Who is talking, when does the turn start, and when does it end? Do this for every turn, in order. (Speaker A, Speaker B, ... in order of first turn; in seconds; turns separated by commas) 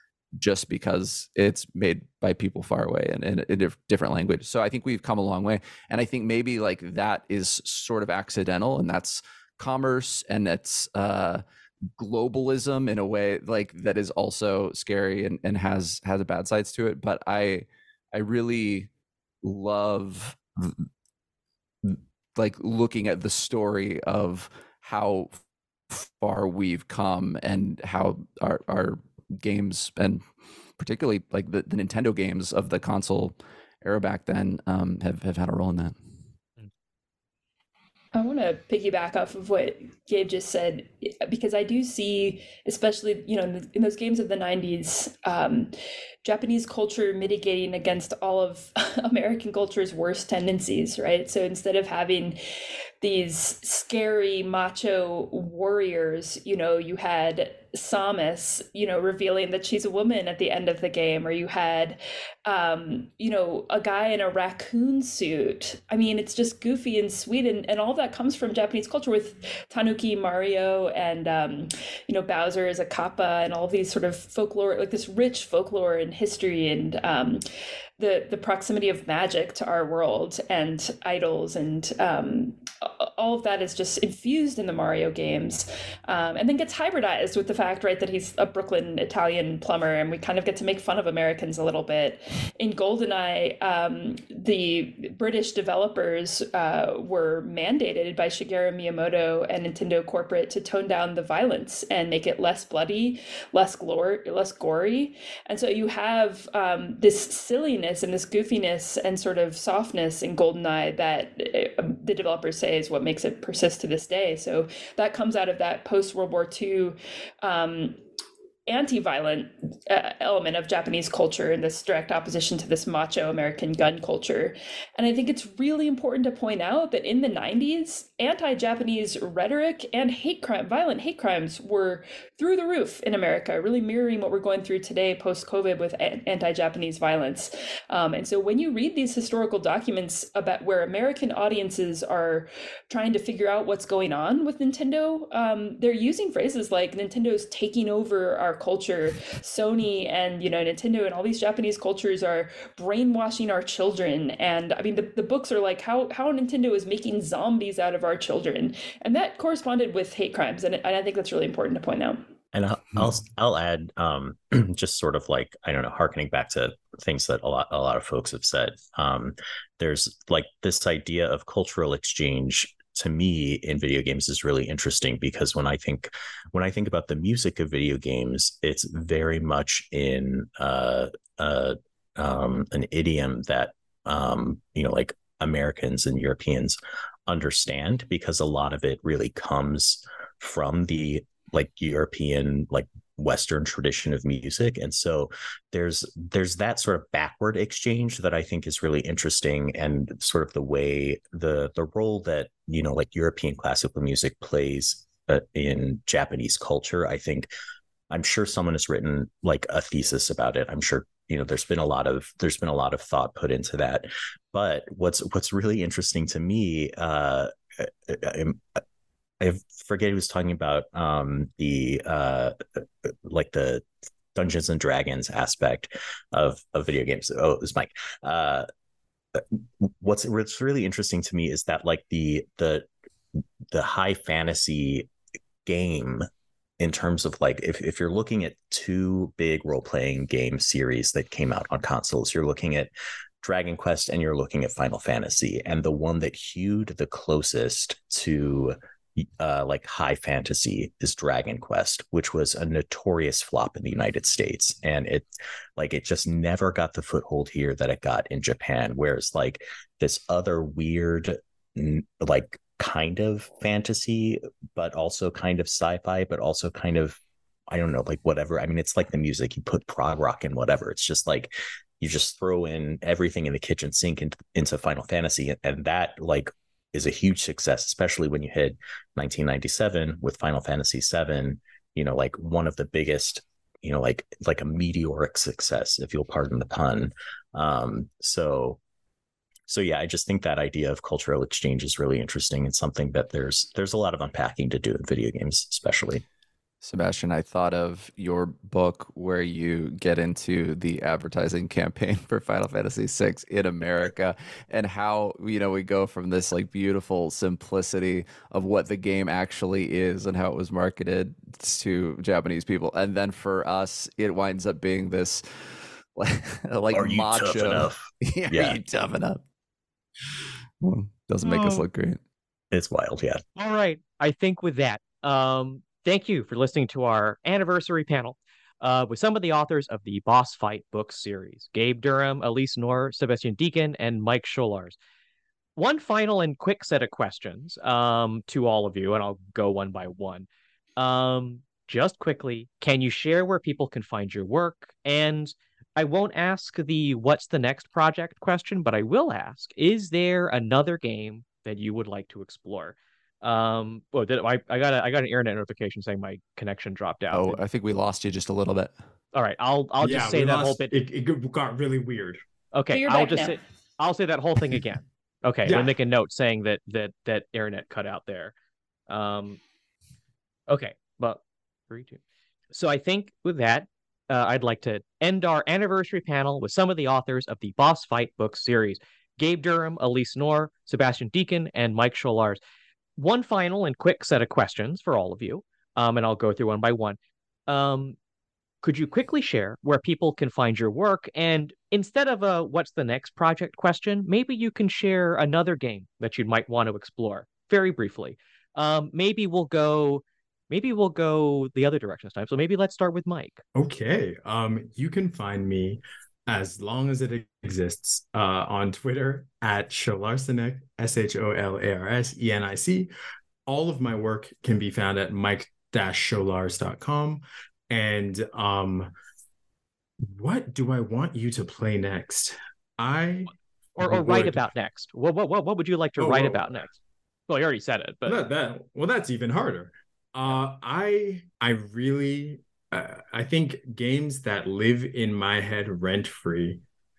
Speaker A: 0.4-11.4, Speaker A: 12.0-18.9, Speaker A: 19.4-20.9, Speaker A: 21.8-25.4, Speaker A: 25.9-30.2, Speaker A: 30.8-36.0, Speaker B: 38.1-52.4, Speaker B: 53.0-77.4, Speaker B: 78.0-118.0, Speaker B: 118.7-162.2, Speaker C: 162.5-207.5, Speaker C: 208.1-218.8, Speaker C: 219.4-228.7, Speaker C: 229.4-232.9, Speaker C: 233.7-235.1, Speaker C: 235.7-236.2, Speaker C: 236.8-288.8, Speaker C: 289.7-296.2, Speaker A: 296.8-319.4, Speaker C: 316.9-318.8, Speaker A: 320.8-322.2, Speaker C: 322.7-323.4, Speaker D: 323.6-335.0, Speaker D: 335.8-357.6, Speaker A: 357.3-358.9, Speaker D: 359.3-360.9, Speaker E: 360.0-362.4, Speaker D: 362.7-368.5, Speaker B: 362.9-363.6, Speaker E: 365.7-365.9, Speaker D: 369.1-369.6, Speaker D: 370.7-372.2, Speaker D: 372.7-382.6, Speaker D: 383.2-388.2, Speaker D: 388.8-403.6, Speaker E: 403.8-413.1, Speaker E: 413.7-419.1, Speaker E: 420.3-424.6, Speaker D: 424.0-426.9, Speaker E: 426.2-426.7, Speaker D: 427.5-428.4, Speaker E: 428.3-436.8